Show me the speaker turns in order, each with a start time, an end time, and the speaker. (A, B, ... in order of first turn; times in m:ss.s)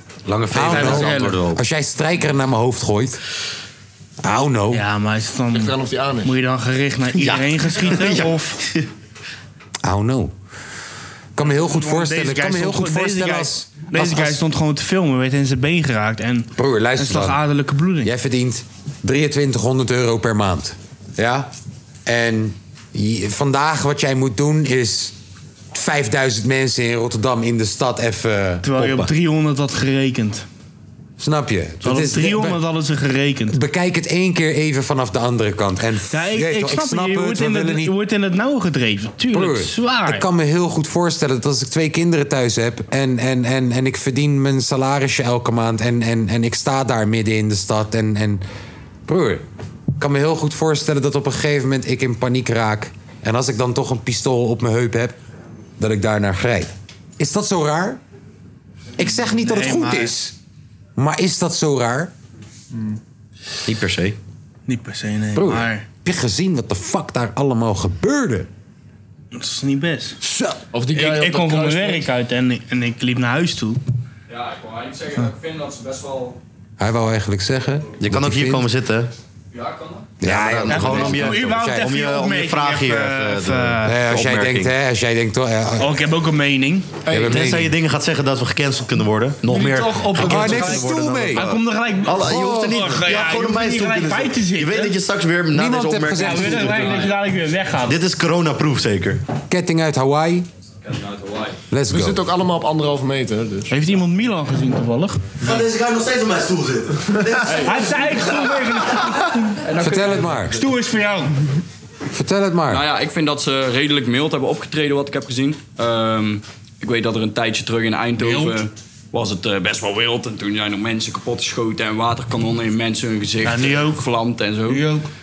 0:00.3-0:01.6 A
0:00.5-0:03.2 B
0:00.6-0:01.4 C
0:04.2-0:04.8 B
0:04.7-0:08.6 C
0:05.5-0:06.3 D
0:07.2-0:08.9 A
0:09.8-0:10.3 B
0:11.4-0:14.4 B
0:11.4-0:18.1 C
0:16.6-0:17.4 B
0:18.0-0:21.5 B
0:22.1-0:25.1 B
0:25.7-0:28.9 B
0:28.6-0:30.4 C
0:31.2-0:32.6 B
0:31.8-0:33.6 C
0:33.5-0:38.0 B
0:36.1-0:40.2 C
0:39.3-0:48.4 B
0:49.1-0:49.4 B
0:50.0-0:55.2 B
0:55.8-0:58.0 B
0:59.0-1:00.4 B
0:59.4-1:00.1 C
1:01.0-1:02.1 B
1:02.7-1:03.0 D
1:03.7-1:04.2 A
1:04.7-1:05.8 C
1:05.4-1:08.5 B
1:09.3-1:10.2 C
1:10.2-1:10.6 B
1:10.7-1:12.1 D
1:10.9-1:13.8 C
1:14.3-1:16.4 E
1:16.8-1:18.7 B
1:18.0-1:19.1 A
1:19.5-1:20.1 E
1:20.2-1:21.9 B
1:20.2-1:24.7 A
1:20.7-1:24.0 C
1:23.8-1:25.9 B
1:25.8-1:27.0 C
1:27.0-1:27.6 D
1:27.1-1:27.7 B
1:27.1-1:37.0 A
1:29.4-1:30.9 D
1:29.9-1:30.8 C
1:30.1-1:31.5 B
1:31.3-1:35.0 C
1:35.5-1:36.9 B
1:36.2-1:38.0 C
1:37.9-1:39.2 A
1:39.5-1:40.5 B
1:40.8-1:41.6 E
1:41.7-1:42.2 B
1:41.9-1:43.7 D
1:43.7-1:45.3 C
1:45.4-1:47.6 A
1:47.2-1:47.7 D
1:47.5-1:51.4 C
1:49.8-1:50.6 B
1:49.8-1:50.1 E
1:52.1-1:52.8 B
1:52.7-2:04.9 E
1:58.2-1:58.6 C
2:03.4-2:04.0 C
2:04.7-2:05.1 C